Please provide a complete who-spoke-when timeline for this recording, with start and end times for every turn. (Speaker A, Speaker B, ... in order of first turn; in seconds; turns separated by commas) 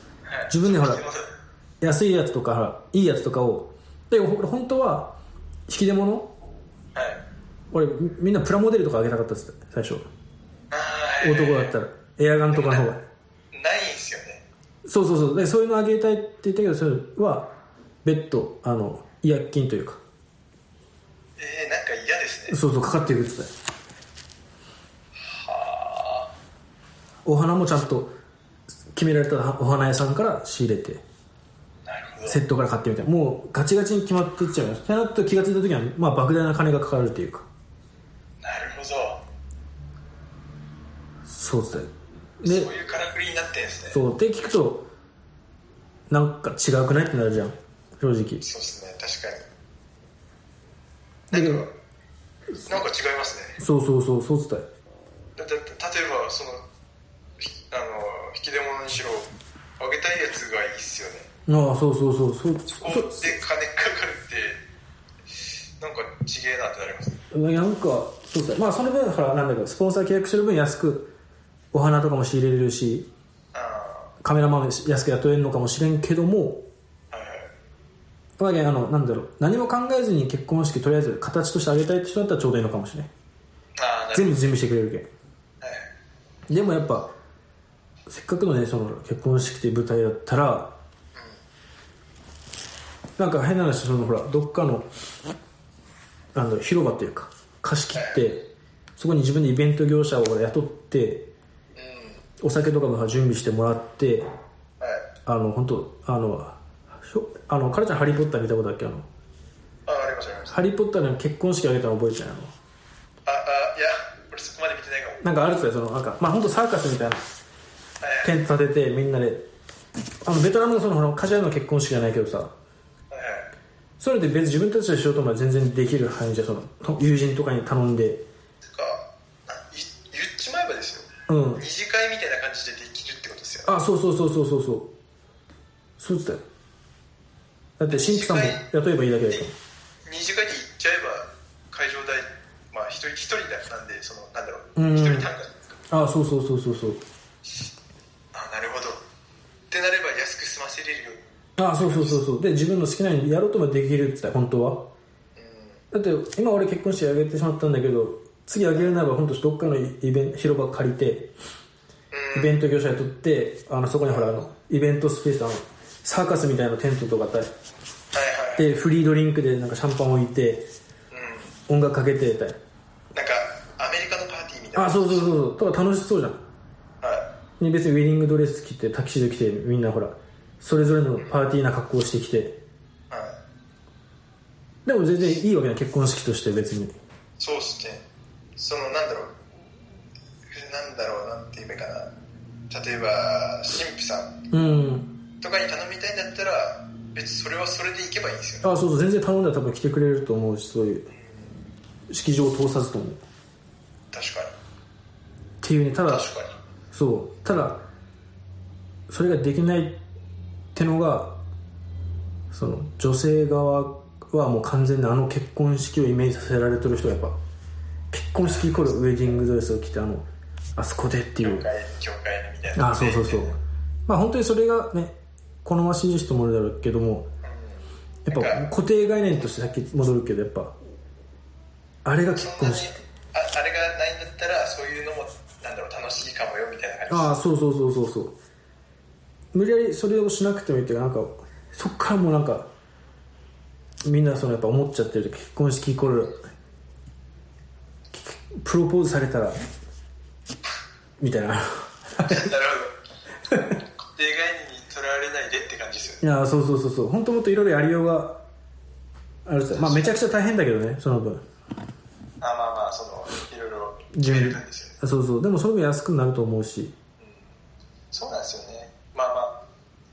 Speaker A: 0.2-1.3, Speaker B: 0.5-1.0, Speaker B: 1.8-5.2, Speaker B: 5.7-6.3, Speaker A: 6.9-7.2, Speaker B: 7.7-10.1, Speaker A: 10.7-11.7, Speaker B: 11.2-13.0, Speaker A: 12.5-12.9, Speaker A: 13.5-14.4, Speaker B: 14.8-17.5, Speaker B: 18.0-20.0, Speaker A: 21.4-22.6, Speaker B: 22.5-23.5, Speaker A: 25.2-26.3, Speaker B: 27.2-28.1, Speaker B: 28.9-31.0, Speaker A: 31.9-32.4, Speaker B: 32.3-37.5, Speaker A: 38.4-39.2, Speaker B: 41.2-41.9, Speaker B: 42.4-42.7, Speaker A: 42.4-44.0, Speaker B: 43.9-44.9, Speaker B: 46.1-48.4, Speaker A: 48.4-49.5, Speaker B: 51.3-51.6, Speaker A: 51.3-51.7, Speaker A: 52.6-53.6, Speaker B: 53.6-54.7, Speaker A: 55.4-56.6, Speaker A: 57.4-61.3, Speaker B: 61.5-63.4, Speaker A: 62.7-64.6, Speaker A: 65.8-67.2, Speaker B: 67.3-71.1, Speaker B: 71.7-73.1, Speaker A: 73.5-74.1, Speaker B: 74.2-76.7, Speaker A: 77.1-77.5, Speaker B: 78.4-83.1, Speaker A: 83.8-84.5, Speaker B: 84.1-85.1, Speaker A: 85.6-85.9, Speaker B: 86.5-87.1, Speaker B: 88.1-90.8, Speaker A: 91.1-91.4, Speaker B: 93.2-94.9, Speaker B: 96.3-101.3, Speaker A: 97.9-98.4, Speaker A: 101.8-102.2, Speaker B: 102.4-104.3, Speaker A: 104.8-105.1, Speaker B: 105.2-109.1, Speaker A: 109.8-110.6, Speaker B: 110.5-112.5, Speaker A: 113.2-115.2, Speaker B: 115.2-117.2, Speaker A: 118.0-118.3, Speaker B: 118.2-119.5, Speaker B: 120.2-122.5, Speaker A: 123.1-123.5, Speaker B: 124.0-128.2, Speaker A: 128.7-133.7, Speaker B: 131.3-131.6, Speaker B: 133.7-134.9, Speaker B: 136.0-136.4, Speaker B: 137.8-139.5, Speaker A: 137.9-138.6, Speaker A: 140.1-145.8, Speaker B: 144.8-145.3, Speaker B: 145.9-147.0, Speaker A: 148.3-149.0, Speaker A: 149.7-151.2, Speaker B: 151.6-154.9, Speaker A: 151.7-152.2, Speaker A: 155.3-155.8, Speaker B: 155.9-161.3, Speaker A: 162.1-162.6, Speaker B: 162.3-167.5, Speaker A: 168.1-168.7, Speaker B: 168.6-170.7, Speaker A: 171.1-171.6, Speaker B: 171.7-172.6, Speaker A: 173.1-175.3, Speaker B: 174.7-176.4, Speaker A: 177.0-177.3, Speaker B: 177.6-182.6, Speaker A: 183.1-183.4, Speaker B: 184.8-186.9, Speaker A: 187.4-188.0, Speaker A: 188.6-189.3, Speaker A: 190.5-192.1, Speaker A: 192.7-194.3, Speaker B: 194.5-195.1, Speaker A: 195.4-198.7, Speaker B: 198.6-201.1, Speaker B: 202.1-203.2, Speaker A: 204.1-204.5, Speaker B: 205.6-206.3, Speaker A: 206.1-206.6, Speaker B: 206.9-207.9, Speaker B: 209.1-210.0, Speaker B: 210.7-211.4, Speaker B: 212.5-217.4, Speaker B: 218.1-221.7, Speaker A: 218.4-218.9, Speaker A: 221.4-223.6, Speaker B: 222.8-227.3, Speaker A: 227.4-228.7, Speaker B: 228.2-230.8, Speaker B: 232.0-232.9, Speaker A: 232.3-237.4, Speaker B: 237.1-238.3, Speaker B: 239.5-242.7, Speaker B: 244.0-246.4, Speaker B: 248.1-249.6, Speaker B: 251.2-252.5, Speaker A: 252.2-252.9, Speaker A: 253.5-256.2, Speaker B: 256.2-258.4, Speaker B: 259.4-261.4, Speaker A: 259.7-260.2, Speaker A: 262.4-265.0, Speaker B: 264.1-266.9, Speaker A: 267.2-267.5, Speaker A: 268.1-269.6